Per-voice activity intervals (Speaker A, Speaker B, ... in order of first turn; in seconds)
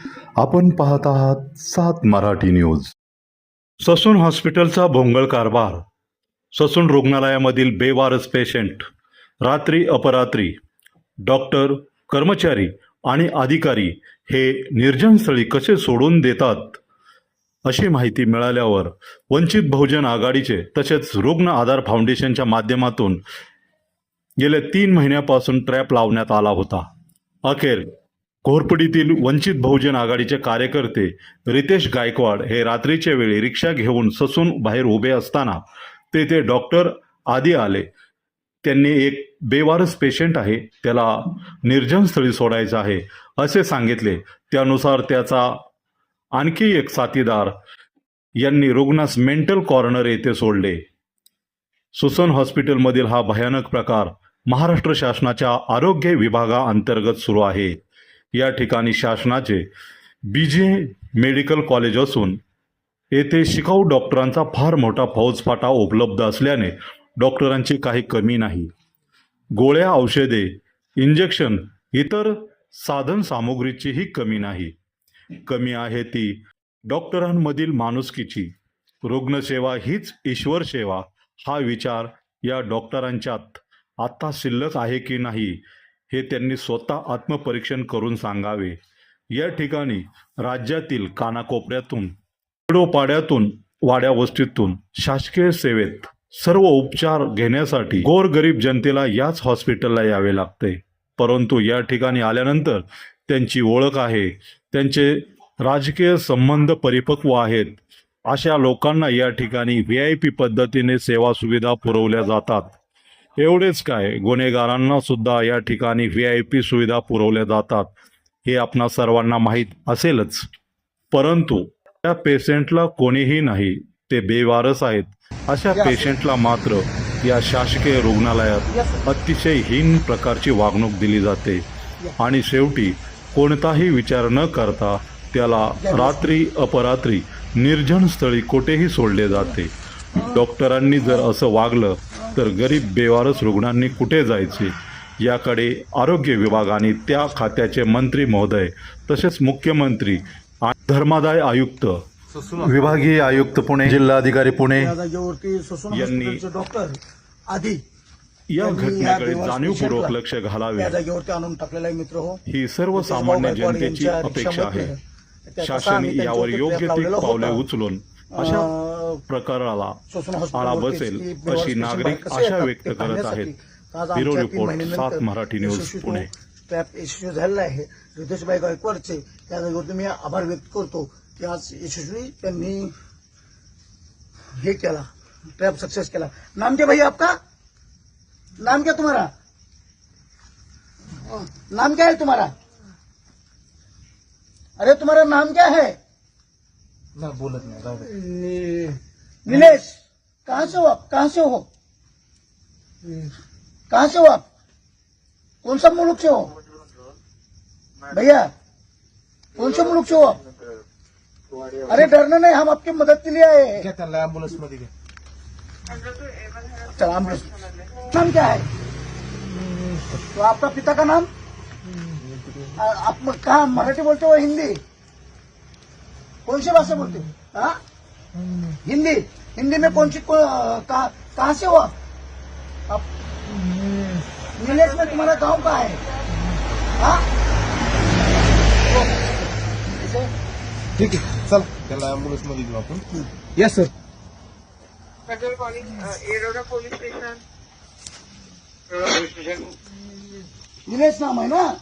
Speaker A: 0.4-2.9, 3.8-5.8, 6.5-8.9, 9.4-10.5, 11.2-16.8, 17.6-23.2, 24.4-26.9, 27.4-27.9, 28.4-35.6, 36.1-37.9, 38.6-45.6, 46.3-47.5, 48.4-50.8, 51.9-57.8, 58.3-59.7, 60.3-62.4, 63.1-68.7, 69.5-74.7, 75.4-78.5, 79.0-88.8, 89.3-92.1, 92.7-112.7, 113.4-117.9, 118.4-120.5, 121.1-131.6, 132.2-152.0, 152.6-154.9, 155.9-156.4, 158.5-160.9, 162.4-164.9, 165.6-168.7, 169.3-170.0, 170.5-173.5, 174.1-176.3
Speaker B: 125.8-126.1, 135.8-136.3, 154.7-157.8, 158.6-160.2, 160.8-162.4, 162.9-167.6, 168.3-169.2, 170.1-182.9, 184.6-185.1, 185.6-187.4, 188.6-189.3, 191.5-192.5, 194.8-196.0, 199.4-201.7, 203.9-204.4, 205.6-206.5, 208.1-208.5, 209.6-210.4, 211.8-213.9, 216.8-218.7, 220.3-221.3, 222.8-224.8, 226.4-227.8, 228.8-231.9, 234.5-236.0, 237.0-237.2, 238.7-239.3, 239.8-240.3, 250.8-251.7
Speaker C: 152.3-153.2, 197.2-199.0, 213.8-214.9, 241.0-243.9
Speaker D: 215.9-216.9, 245.3-247.4, 249.1-249.5